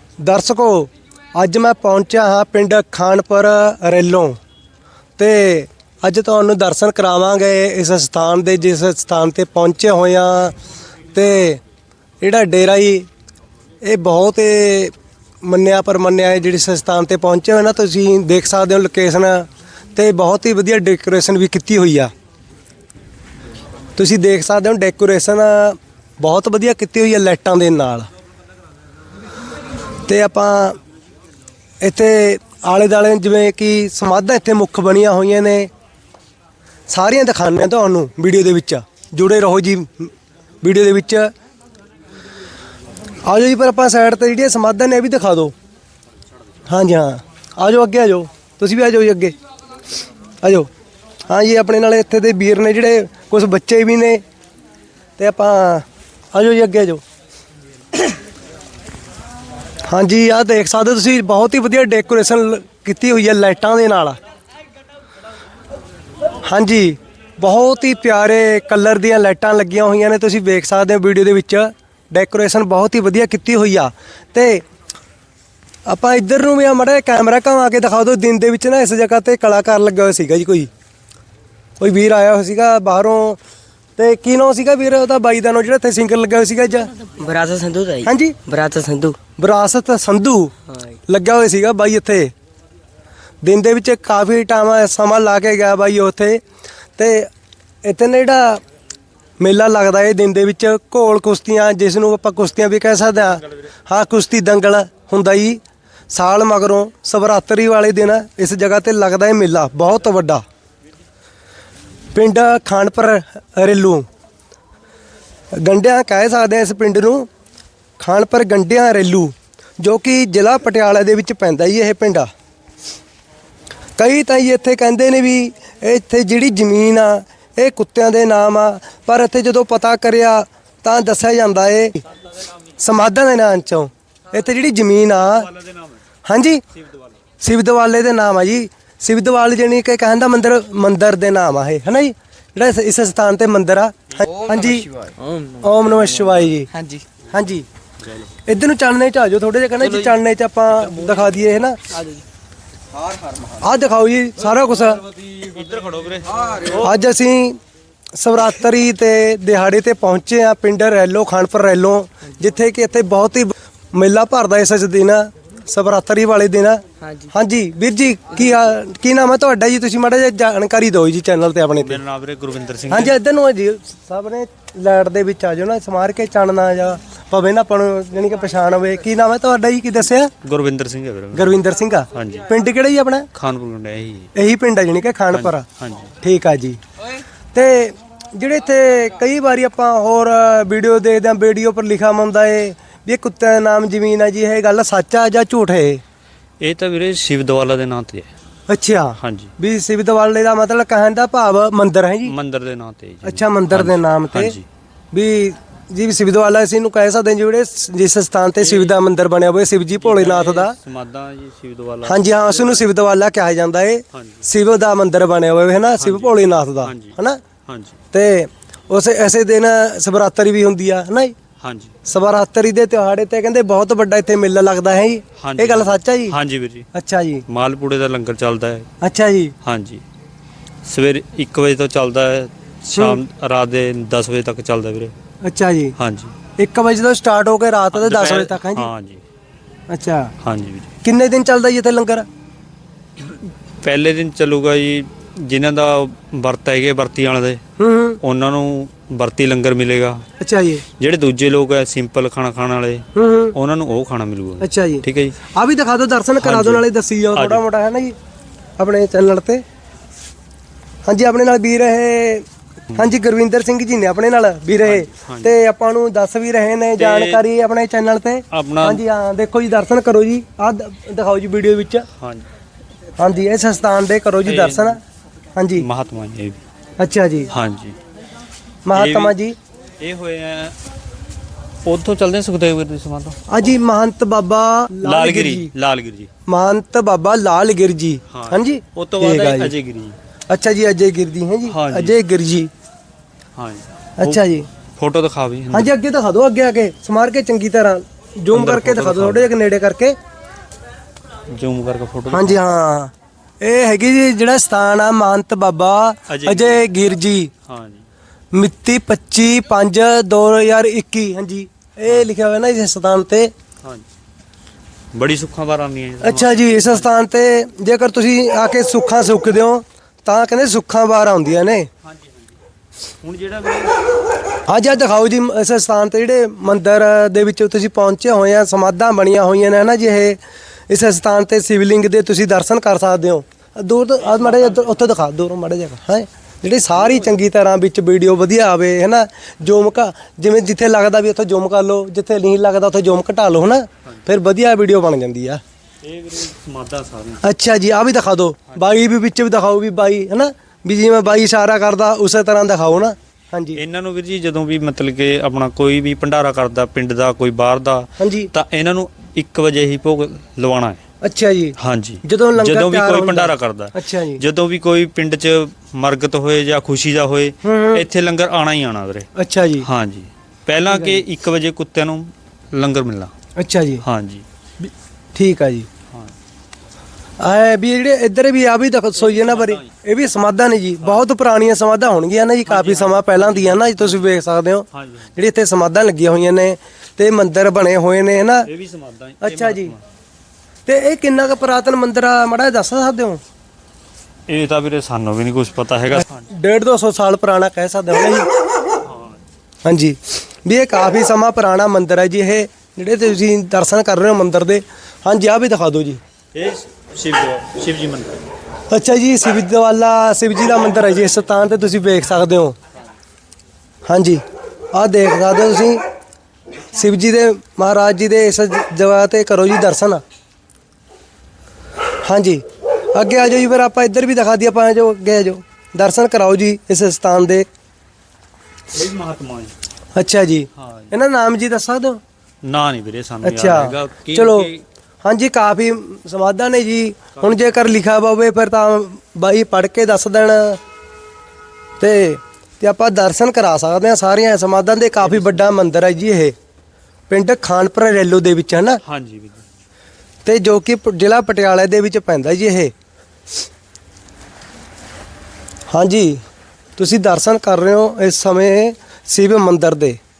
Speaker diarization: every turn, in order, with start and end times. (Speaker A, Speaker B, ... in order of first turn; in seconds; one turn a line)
Speaker A: 0.2-4.4
Speaker A: 5.2-10.6
Speaker A: 11.1-11.6
Speaker A: 12.2-13.1
Speaker A: 13.8-14.9
Speaker A: 15.4-22.1
Speaker A: 24.0-28.1
Speaker A: 30.1-30.8
Speaker A: 31.8-35.7
Speaker A: 36.9-40.1
Speaker A: 40.6-41.3
Speaker A: 43.2-45.5
Speaker A: 46.7-49.3
Speaker A: 50.4-50.7
Speaker A: 51.3-54.2
Speaker A: 55.2-57.0
Speaker A: 59.9-64.2
Speaker A: 66.5-74.6
Speaker A: 75.9-80.7
Speaker A: 81.8-83.4
Speaker A: 84.0-86.9
Speaker B: 87.0-89.2
Speaker A: 88.0-88.4
Speaker A: 89.4-90.5
Speaker B: 90.7-91.0
Speaker A: 91.1-92.3
Speaker A: 93.4-96.4
Speaker A: 97.0-97.3
Speaker A: 97.8-98.6
Speaker A: 99.4-110.4
Speaker A: 112.1-114.1
Speaker A: 115.6-117.3
Speaker A: 118.0-122.3
Speaker A: 124.0-132.0
Speaker A: 132.8-135.5
Speaker C: 135.2-136.0
Speaker A: 136.2-136.6
Speaker C: 136.8-137.1
Speaker A: 137.4-144.9
Speaker B: 144.4-145.6
Speaker A: 145.6-146.7
Speaker B: 146.7-147.0
Speaker A: 147.3-147.7
Speaker A: 148.5-151.8
Speaker B: 151.9-152.2
Speaker A: 153.6-155.1
Speaker C: 155.3-156.9
Speaker A: 156.8-157.6
Speaker A: 158.2-172.0
Speaker C: 171.8-173.2
Speaker A: 172.9-180.3
Speaker C: 180.4-181.6
Speaker A: 181.3-183.3
Speaker C: 182.1-182.5
Speaker C: 183.3-184.3
Speaker A: 184.3-185.6
Speaker C: 185.3-186.1
Speaker A: 186.2-186.8
Speaker A: 187.5-196.0
Speaker C: 196.6-198.3
Speaker A: 198.7-202.3
Speaker C: 199.2-199.5
Speaker C: 202.2-204.6
Speaker A: 203.2-204.6
Speaker A: 205.1-210.8
Speaker C: 208.6-209.0
Speaker C: 210.0-212.9
Speaker A: 212.0-217.4
Speaker C: 214.1-214.4
Speaker C: 216.0-217.2
Speaker C: 217.7-217.9
Speaker A: 218.1-221.3
Speaker C: 221.6-221.9
Speaker A: 222.1-226.3
Speaker C: 225.4-226.8
Speaker A: 226.9-227.4
Speaker C: 227.5-228.9
Speaker A: 229.0-229.5
Speaker C: 229.6-230.0
Speaker C: 230.8-235.1
Speaker A: 235.4-235.9
Speaker C: 236.0-236.3
Speaker A: 236.6-238.9
Speaker C: 237.9-239.2
Speaker A: 239.9-240.3
Speaker C: 240.4-240.9
Speaker A: 241.0-242.2
Speaker C: 243.2-247.6
Speaker A: 247.8-248.2
Speaker C: 248.2-250.2
Speaker A: 250.4-250.8
Speaker C: 251.0-255.4
Speaker A: 253.1-253.6
Speaker A: 254.6-258.1
Speaker C: 256.4-257.6
Speaker A: 258.8-259.6
Speaker A: 261.1-272.1
Speaker C: 264.8-265.6
Speaker C: 267.0-267.4
Speaker C: 268.5-269.0
Speaker C: 272.2-272.4
Speaker A: 273.2-275.0
Speaker C: 274.5-275.0
Speaker A: 275.6-275.9
Speaker C: 275.8-276.6
Speaker A: 277.0-277.5
Speaker C: 277.5-278.0
Speaker A: 278.9-279.6
Speaker C: 278.9-279.4
Speaker C: 280.0-280.7
Speaker C: 281.9-283.4
Speaker A: 283.5-285.7
Speaker C: 285.0-286.3
Speaker A: 286.5-289.7
Speaker C: 288.3-290.2
Speaker A: 290.5-292.7
Speaker C: 291.7-292.2
Speaker C: 293.6-294.4
Speaker A: 294.2-294.7
Speaker C: 295.0-295.9
Speaker A: 295.7-300.2
Speaker C: 298.5-299.5
Speaker C: 301.5-302.6
Speaker A: 302.3-307.5
Speaker C: 306.3-306.9
Speaker C: 307.7-308.1
Speaker A: 308.5-313.5
Speaker C: 315.1-317.1
Speaker A: 316.2-321.9
Speaker C: 322.1-322.6
Speaker C: 323.2-323.9
Speaker A: 324.7-330.4
Speaker A: 330.9-345.6
Speaker C: 334.2-335.0
Speaker C: 336.9-337.4
Speaker C: 346.0-347.4
Speaker A: 347.4-353.8
Speaker C: 348.7-349.0
Speaker C: 353.8-361.0
Speaker A: 358.2-358.5
Speaker A: 361.2-364.4
Speaker C: 361.8-369.3
Speaker A: 367.6-368.1
Speaker A: 369.4-369.9
Speaker C: 369.8-373.3
Speaker A: 370.9-371.2
Speaker A: 373.6-374.0
Speaker C: 374.0-374.4
Speaker A: 374.8-375.9
Speaker A: 377.4-384.9
Speaker C: 379.2-379.9
Speaker C: 382.7-384.3
Speaker C: 384.9-385.3
Speaker A: 385.4-388.7
Speaker C: 388.7-390.0
Speaker A: 389.4-389.9
Speaker A: 390.9-393.4
Speaker C: 394.5-396.4
Speaker A: 396.1-398.5
Speaker C: 399.1-399.4
Speaker A: 399.9-406.2
Speaker C: 406.5-408.4
Speaker A: 408.9-412.8
Speaker A: 414.1-414.4
Speaker A: 414.9-416.0
Speaker A: 416.9-420.2
Speaker A: 422.2-422.6
Speaker A: 423.1-427.7
Speaker C: 428.9-429.7
Speaker A: 430.1-432.2
Speaker C: 430.8-431.1
Speaker C: 432.6-434.8
Speaker A: 433.4-434.7
Speaker A: 435.2-440.8
Speaker C: 437.4-437.9
Speaker A: 442.0-446.6
Speaker C: 445.2-445.7
Speaker A: 447.3-449.0
Speaker C: 449.1-449.6
Speaker A: 450.4-452.9
Speaker A: 455.9-456.4
Speaker A: 457.0-460.2